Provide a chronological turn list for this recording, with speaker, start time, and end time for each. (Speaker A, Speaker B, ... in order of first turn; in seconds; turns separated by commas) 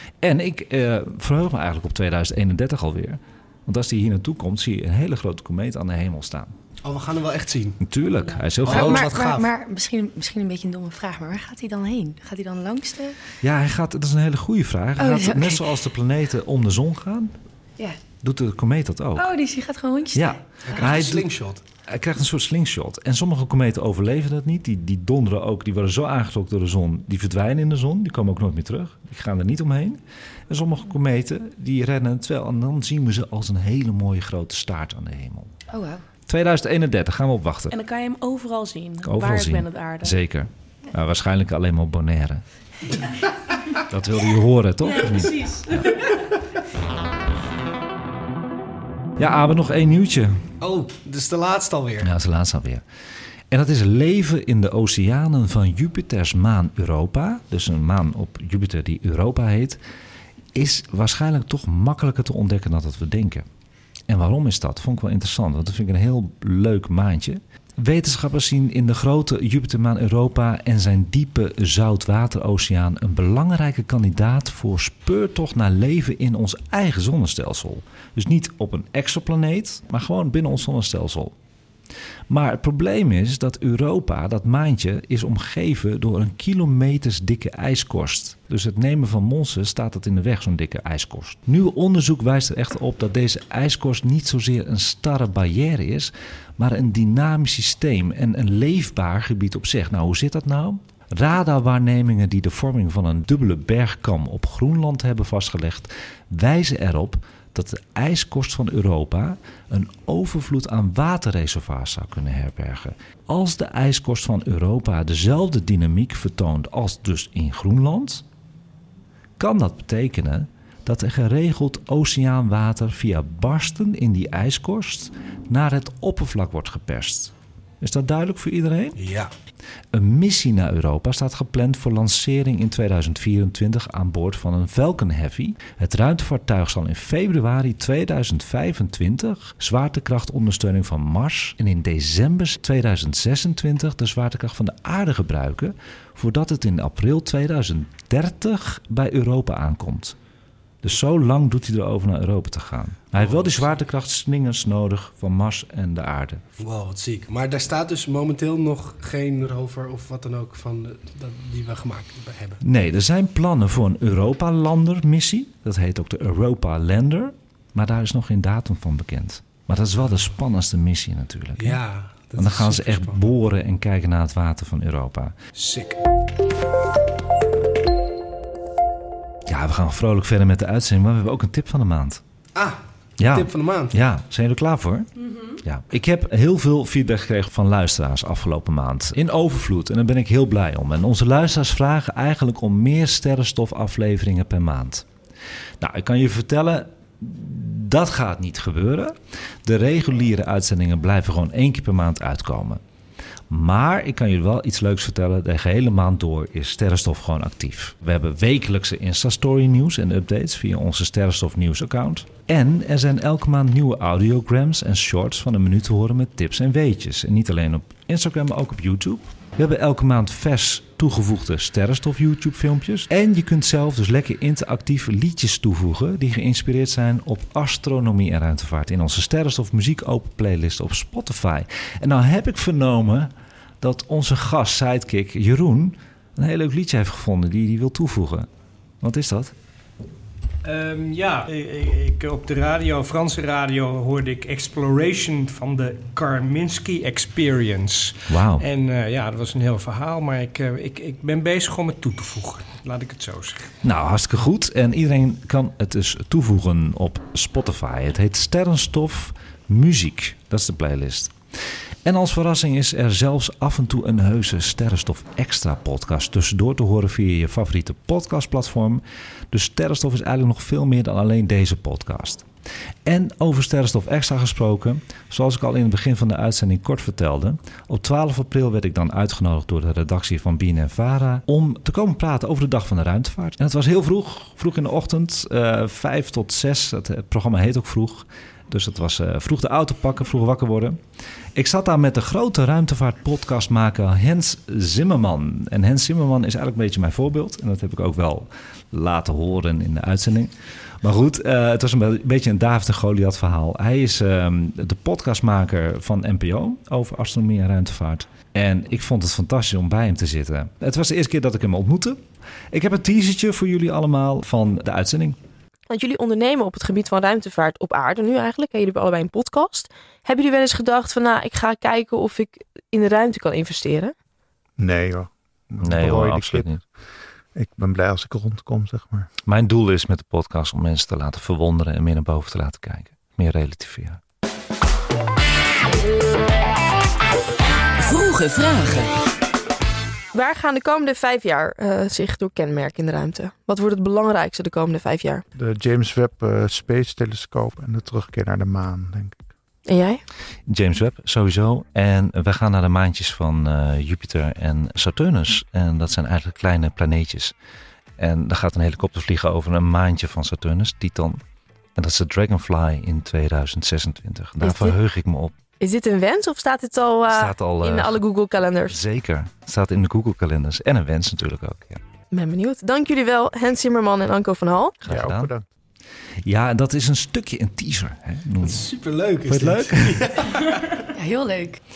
Speaker A: 0.2-6.5, Speaker B: 6.8-7.8, Speaker A: 7.8-9.1, Speaker C: 8.6-13.2, Speaker B: 8.6-9.5, Speaker A: 13.4-17.3, Speaker C: 15.0-15.7, Speaker A: 18.2-19.3, Speaker C: 19.1-20.4, Speaker A: 20.1-21.3, Speaker B: 20.6-21.6, Speaker A: 21.9-35.5, Speaker C: 35.7-36.0, Speaker A: 36.3-37.7, Speaker D: 37.7-40.2, Speaker A: 39.0-42.4, Speaker A: 43.9-45.9, Speaker D: 44.8-46.1, Speaker A: 49.2-50.5, Speaker B: 50.6-52.1, Speaker A: 52.0-52.8, Speaker A: 53.5-59.8, Speaker A: 60.5-63.5, Speaker A: 64.1-81.3, Speaker A: 82.3-118.2, Speaker A: 119.4-129.0, Speaker B: 129.0-129.3, Speaker A: 129.9-150.2, Speaker A: 150.8-156.4, Speaker B: 153.1-153.7, Speaker B: 156.6-162.6, Speaker A: 162.6-171.8, Speaker B: 171.6-173.2, Speaker A: 172.3-175.3, Speaker B: 175.5-176.0, Speaker A: 179.4-182.2, Speaker B: 182.5-184.0, Speaker A: 183.2-185.1, Speaker D: 185.2-185.5, Speaker A: 185.6-195.1, Speaker A: 195.8-202.8, Speaker A: 203.5-238.5, Speaker A: 239.0-239.5, Speaker E: 240.6-253.7, Speaker A: 248.3-248.6, Speaker A: 253.8-261.4, Speaker A: 262.0-272.4, Speaker A: 273.0-291.0, Speaker A: 291.5-312.2, Speaker A: 312.7-315.4, Speaker F: 315.9-324.1, Speaker G: 324.8-326.8, Speaker A: 325.8-326.8, Speaker G: 327.5-329.3, Speaker A: 329.4-334.2, Speaker C: 338.0-339.1, Speaker F: 340.3-345.4, Speaker G: 345.5-349.4, Speaker F: 349.8-350.2, Speaker A: 350.7-357.5, Speaker A: 358.2-361.4, Speaker A: 361.9-365.6, Speaker F: 365.8-369.0, Speaker A: 367.3-368.2, Speaker A: 368.9-372.0, Speaker F: 372.3-375.0, Speaker A: 375.0-375.5, Speaker G: 375.0-375.6, Speaker A: 376.4-378.9, Speaker B: 378.6-380.9, Speaker A: 379.4-380.1, Speaker C: 381.1-381.8